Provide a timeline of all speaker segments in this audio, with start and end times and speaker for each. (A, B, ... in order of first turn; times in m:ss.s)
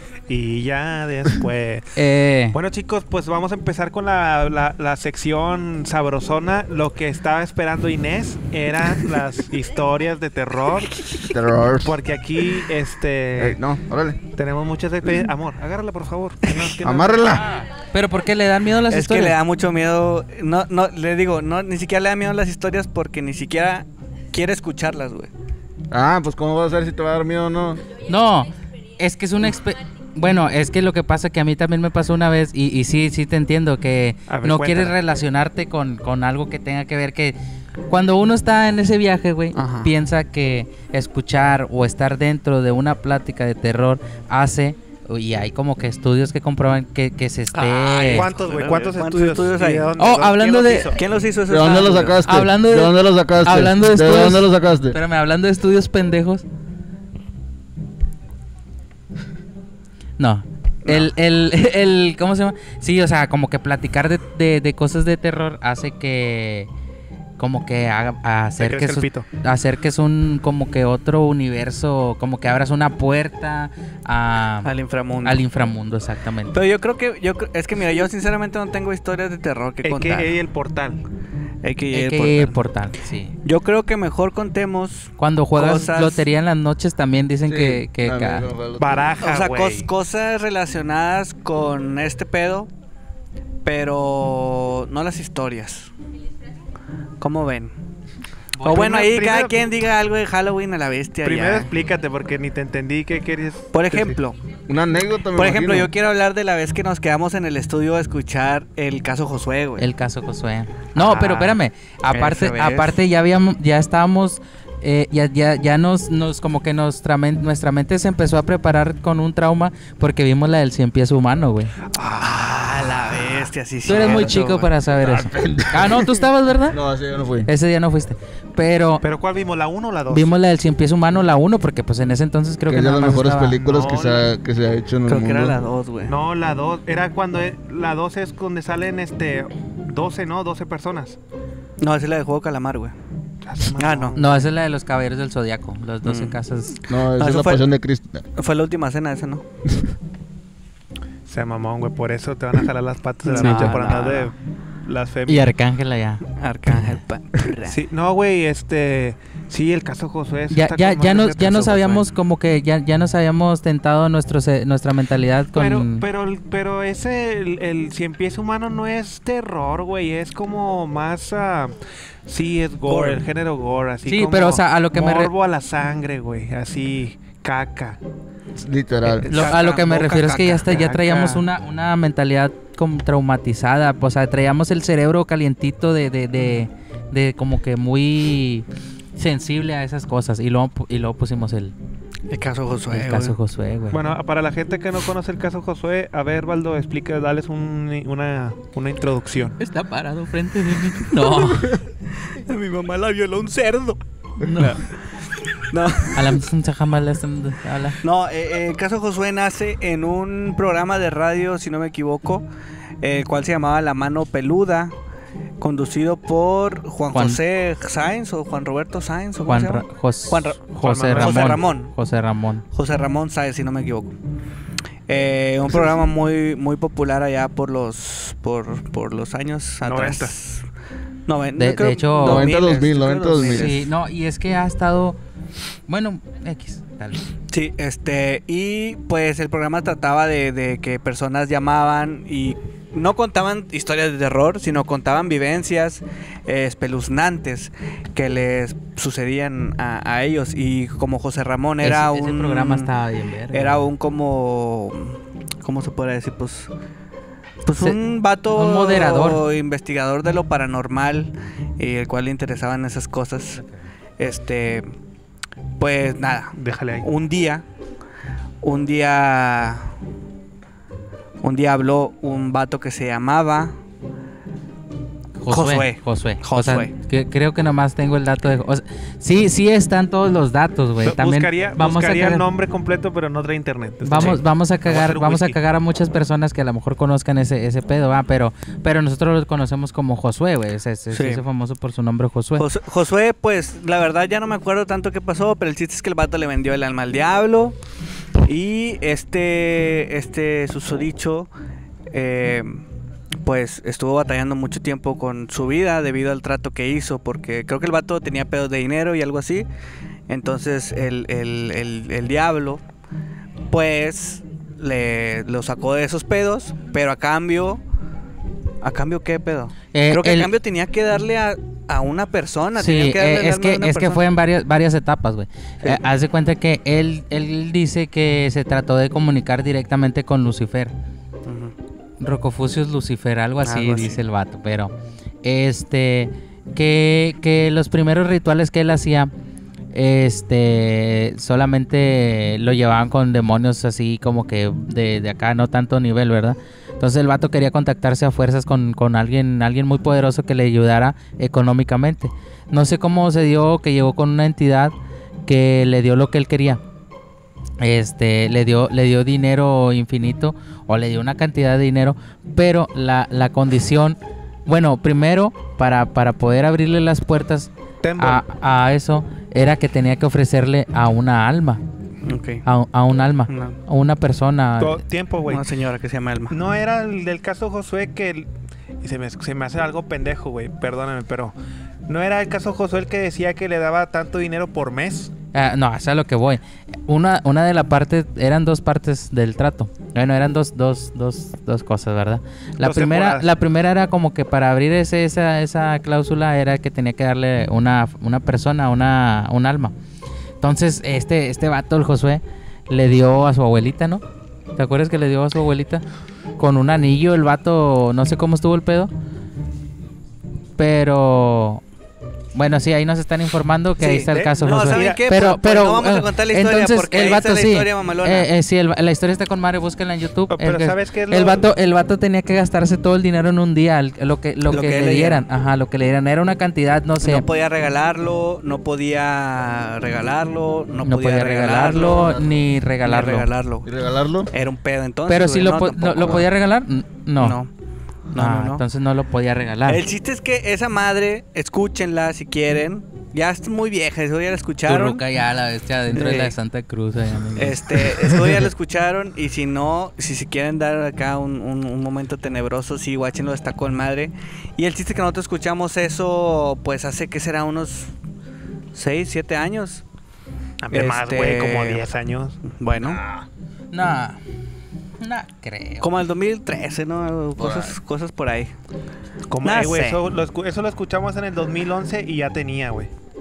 0:00.3-0:01.9 A
0:02.0-0:02.6 B
0:02.5-0:11.0 A
0:11.2-0:12.0 C
0:11.8-0:13.6 A
0:13.4-0:14.2 C
0:14.4-0:17.6 A
0:16.8-0:17.6 C
0:17.9-0:19.4 B
0:18.9-0:25.3 D
0:25.9-0:27.8 C
0:28.1-0:37.4 B
0:34.3-0:35.0 A
0:37.9-0:48.3 B
0:39.6-0:39.9 D
0:47.5-0:50.0 D
0:48.1-0:51.1 A
0:50.0-0:50.9 B
0:50.9-0:52.2 D
0:51.5-0:55.0 C
0:52.2-0:56.4 B
1:00.2-1:06.7 B
1:07.4-1:14.7 B
1:08.6-1:09.3 A
1:14.6-1:15.4 D
1:15.2-1:16.6 B
1:16.5-1:20.3 D
1:19.8-1:21.0 A
1:21.6-1:22.6 D
1:21.9-1:23.3 B
1:23.4-1:26.2 D
1:25.2-1:28.5 B
1:27.4-1:29.2 C
1:28.8-1:29.9 A
1:29.2-1:32.7 D
1:33.6-1:35.9 D
1:37.2-1:37.7 D
1:38.6-1:38.8 B
1:38.6-1:39.6 A
1:38.6-1:41.7 D
1:41.2-1:44.2 A
1:43.7-1:44.4 D
1:44.7-1:45.9 C
1:45.4-1:49.8 D
1:49.8-2:01.7 B
1:51.0-1:51.6 A
1:52.1-1:53.0 D
2:02.0-2:04.7 D
2:03.8-2:06.8 B
2:04.0-2:04.4 C
2:05.0-2:06.1 C
2:06.7-2:07.5 C
2:07.5-2:09.0 B
2:09.0-2:10.3 A
2:10.1-2:13.6 B
2:12.7-2:15.6 C
2:13.5-2:14.3 A
2:15.1-2:16.2 D
2:16.1-2:21.2 A
2:21.8-2:23.0 D
2:23.4-2:24.5 A
2:23.8-2:24.2 D
2:24.2-2:26.8 B
2:26.0-2:26.4 D
2:26.9-2:28.2 C
2:27.2-2:27.7 D
2:28.4-2:29.4 D
2:31.3-2:35.5 A
2:33.2-2:34.3 D
2:33.4-2:33.8 B
2:35.3-2:37.0 B
2:36.4-2:37.8 D
2:37.7-2:42.1 A
2:40.5-2:46.1 B
2:45.5-2:51.8 A
2:52.3-2:58.0 A
2:52.8-2:53.2 D
2:54.1-2:55.3 B
2:58.6-2:59.3 C
2:59.1-3:01.4 A
2:59.2-3:08.6 B
3:09.2-3:11.7 B
3:12.3-3:13.4 D
3:12.9-3:14.0 B
3:13.9-3:19.6 A
3:19.6-3:21.8 B
3:21.2-3:24.0 D
3:24.4-3:24.8 B
3:25.7-3:26.3 D
3:26.1-3:28.0 B
3:28.0-3:32.4 D
3:33.0-3:34.9 D
3:35.6-3:41.9 D
3:37.1-3:37.4 B
3:39.5-3:42.6 B
3:40.8-3:41.6 A
3:42.7-3:44.2 D
3:45.1-3:50.6 D
3:49.8-3:50.4 A
3:51.3-3:53.9 D
3:51.6-3:52.6 B
3:52.2-3:53.8 C
3:53.4-3:55.2 B
3:55.9-3:57.2 B
3:57.5-4:12.9 D
4:11.8-4:13.9 B
4:13.5-4:16.7 D
4:17.6-4:23.6 D
4:18.5-4:19.4 B
4:24.2-4:24.9 D
4:25.8-4:27.6 D
4:26.6-4:27.1 A
4:28.6-4:29.9 D
4:31.4-4:33.8 D
4:35.4-4:42.5 B
4:35.5-4:36.9 D
4:41.0-4:45.6 A
4:44.0-4:52.7 B
4:44.2-4:44.4 D
4:51.1-4:51.4 D
4:52.6-4:57.8 D
4:58.4-5:01.5 D
5:02.1-5:02.8 D
5:03.4-5:09.7 D
5:10.3-5:12.8 D
5:13.7-5:17.8 D
5:18.8-5:24.2 D
5:19.9-5:20.5 B
5:22.8-5:30.9 B
5:31.5-5:31.7 D
5:32.2-5:39.3 B
5:33.6-5:34.2 D
5:39.9-5:55.0 B
5:55.5-5:56.8 B
5:57.8-6:11.8 B
6:08.0-6:08.4 A
6:12.2-6:12.6 D
6:12.6-6:15.0 B
6:13.5-6:13.8 D
6:14.8-6:15.6 A
6:15.5-6:16.6 D
6:16.5-6:18.5 A
6:19.0-6:21.6 A
6:22.1-6:25.3 A
6:25.5-6:39.9 B
6:32.8-6:33.5 A
6:40.6-6:44.2 B
6:44.8-6:46.0 B
6:46.6-6:49.1 B
6:50.8-6:51.8 B
6:52.5-7:07.4 B
6:54.0-6:58.5 D
6:54.2-6:55.3 A
7:00.5-7:01.7 A
7:04.7-7:05.4 D
7:07.2-7:12.4 D
7:11.0-7:13.5 B
7:11.9-7:12.5 C
7:13.0-7:13.9 D
7:13.8-7:14.5 C
7:14.5-7:16.5 D
7:15.3-7:17.6 B
7:17.4-7:17.7 D
7:18.3-7:18.8 D
7:18.4-7:20.0 B
7:19.9-7:25.2 D
7:24.9-7:28.5 B
7:26.1-7:26.5 D
7:27.6-7:38.1 D
7:38.9-7:40.0 D
7:40.8-7:42.6 A
7:40.9-7:42.1 D
7:42.7-7:43.2 D
7:43.0-7:43.5 C
7:43.9-7:44.4 B
7:45.2-7:46.1 B
7:46.0-7:48.7 D
7:47.6-7:48.0 C
7:49.5-7:53.1 A
7:49.6-7:50.2 D